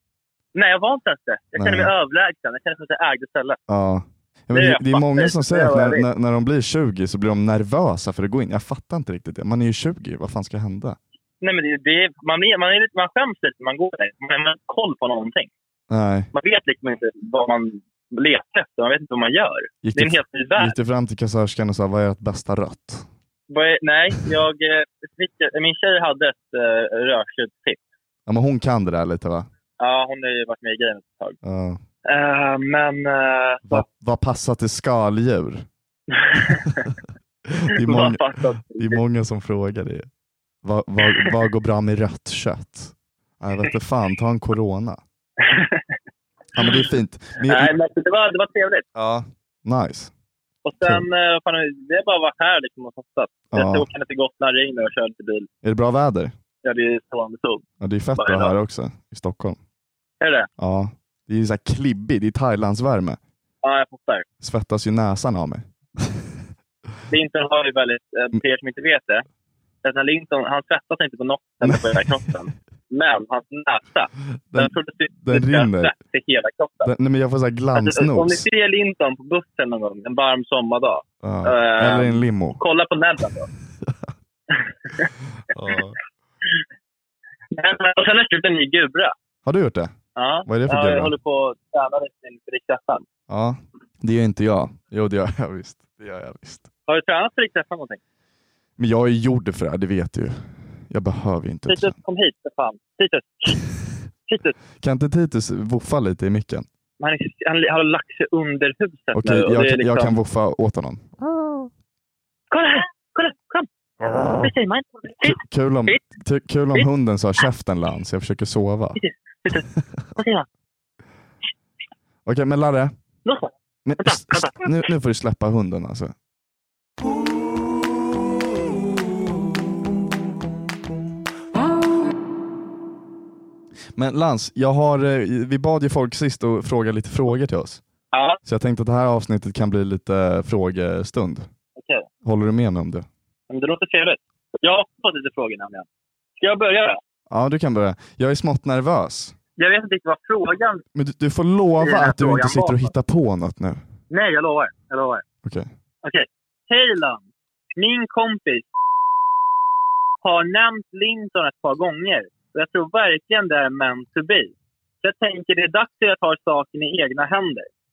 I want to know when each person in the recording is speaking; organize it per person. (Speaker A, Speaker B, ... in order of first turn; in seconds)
Speaker A: 0.6-3.6, 4.5-6.0, 11.4-15.5, 16.3-20.7, 23.5-27.8, 29.8-31.4, 32.1-33.8, 36.1-36.9, 37.8-39.0, 45.4-45.9, 47.5-48.9, 50.6-55.5, 56.6-57.6, 58.2-58.5, 60.2-60.5, 63.6-64.3, 67.1-69.2, 69.8-76.9, 77.8-83.5, 87.5-89.1, 90.2-93.0, 96.9-98.0, 101.7-103.7, 104.3-104.5, 107.0-110.1, 112.5-113.7, 114.3-116.0, 119.0-119.7, 120.2-120.5, 123.2-124.8, 138.1-138.4, 141.8-142.1, 143.5-145.9, 146.4-147.0, 149.6-150.8, 151.8-152.9, 154.1-155.2, 156.0-157.2, 157.8-158.7, 160.2-167.7
Speaker B: 1.6-1.9, 3.7-11.0, 15.9-16.3, 19.8-23.1, 28.3-29.5, 31.4-31.8, 33.7-35.7, 37.5-40.1, 40.6-45.0, 46.5-47.7, 49.0-50.1, 53.5-53.9, 55.6-56.3, 57.8-59.6, 60.6-63.2, 64.4-66.2, 74.5-75.9, 76.8-78.5, 81.2-82.6, 85.5-86.0, 89.4-89.9, 90.5-91.1, 93.3-96.7, 98.8-102.0, 104.8-106.7, 109.1-111.7, 115.2-119.0, 119.5-120.0, 122.3-122.9, 123.9-126.1, 134.0-137.8, 138.4-141.5, 142.2-143.1, 147.3-149.4, 150.9-153.8, 155.4-155.7